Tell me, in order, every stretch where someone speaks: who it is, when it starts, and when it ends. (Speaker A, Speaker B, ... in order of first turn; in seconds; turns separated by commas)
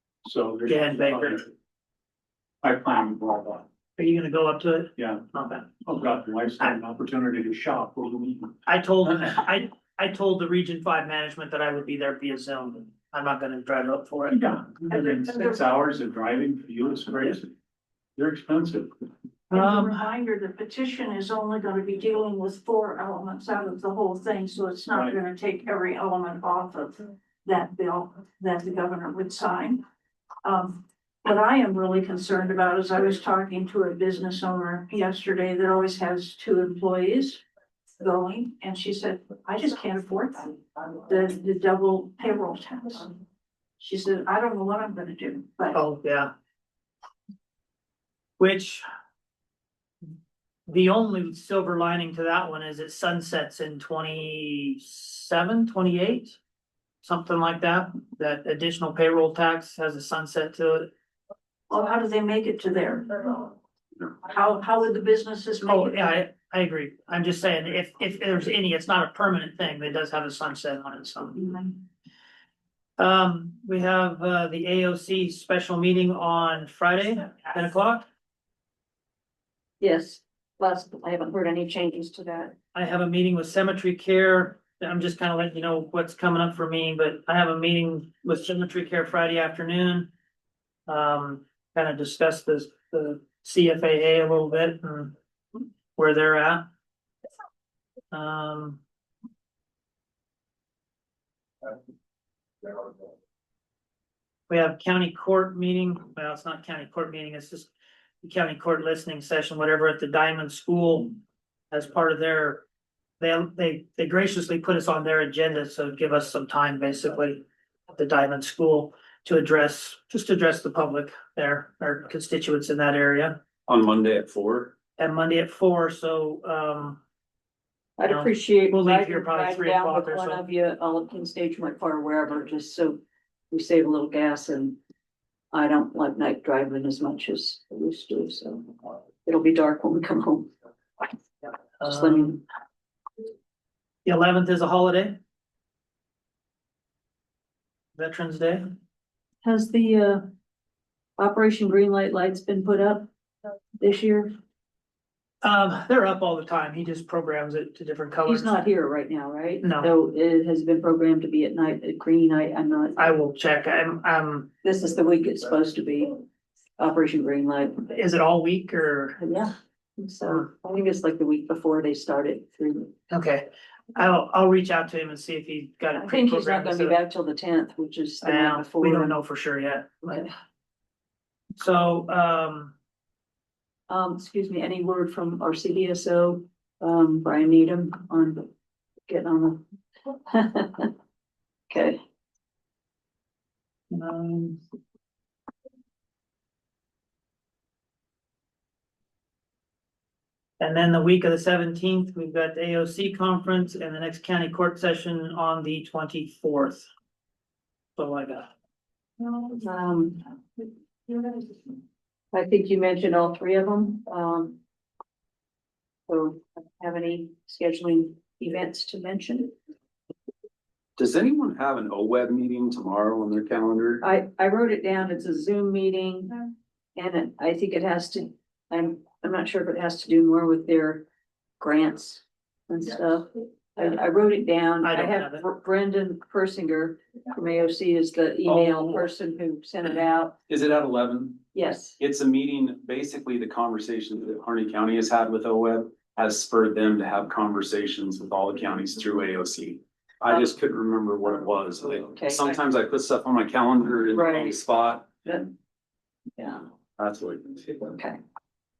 Speaker A: 0.2-1.5, Speaker B: 0.7-1.4, Speaker A: 2.6-3.7, Speaker B: 4.0-5.7, Speaker A: 5.0-5.2, Speaker A: 5.8-8.6, Speaker B: 8.7-14.4, Speaker A: 14.3-17.5, Speaker C: 15.2-15.5, Speaker A: 18.2-18.9, Speaker B: 19.5-20.0, Speaker C: 19.6-29.8, Speaker A: 24.9-25.2, Speaker C: 30.4-37.4, Speaker C: 38.0-43.2, Speaker C: 43.8-45.8, Speaker B: 45.7-46.3, Speaker B: 48.4-48.9, Speaker B: 50.7-56.4, Speaker B: 57.0-60.9, Speaker C: 61.7-63.6, Speaker C: 64.2-66.0, Speaker B: 65.6-71.8, Speaker B: 73.0-78.1, Speaker D: 79.8-82.6, Speaker B: 82.7-90.1, Speaker B: 90.9-95.1, Speaker B: 96.0-96.7, Speaker B: 98.1-98.8, Speaker B: 104.5-107.7, Speaker B: 108.2-111.2, Speaker B: 111.7-112.6, Speaker B: 113.2-123.4, Speaker E: 123.7-124.7, Speaker B: 125.0-127.0, Speaker D: 128.0-134.8, Speaker B: 128.1-130.4, Speaker D: 135.5-140.5, Speaker B: 141.8-142.4, Speaker D: 141.8-142.4, Speaker B: 144.1-145.2, Speaker B: 148.0-148.7, Speaker D: 149.4-150.3, Speaker D: 151.2-153.1, Speaker D: 153.8-154.4, Speaker B: 155.4-158.6, Speaker D: 158.3-163.0, Speaker B: 159.6-159.9, Speaker B: 163.0-164.5, Speaker D: 164.6-166.2, Speaker D: 166.8-167.8, Speaker B: 167.8-169.2, Speaker D: 169.2-172.9, Speaker B: 173.1-177.0, Speaker D: 175.9-179.2, Speaker B: 178.2-180.2, Speaker B: 181.6-182.7, Speaker D: 183.9-188.5, Speaker D: 189.1-190.9, Speaker D: 191.7-192.0, Speaker B: 193.9-194.6, Speaker B: 200.6-206.9, Speaker B: 208.0-208.5, Speaker D: 209.2-211.7, Speaker D: 212.3-214.6, Speaker D: 216.1-219.5, Speaker E: 221.0-224.1, Speaker D: 224.0-226.4, Speaker D: 227.0-231.1, Speaker D: 231.6-240.3, Speaker B: 234.8-235.4, Speaker E: 238.4-239.1, Speaker E: 240.5-255.2, Speaker D: 241.5-242.0, Speaker D: 250.3-250.6, Speaker D: 251.2-252.6, Speaker D: 254.1-254.6, Speaker D: 255.2-255.5, Speaker D: 256.4-256.7, Speaker E: 257.0-258.0, Speaker D: 257.9-258.2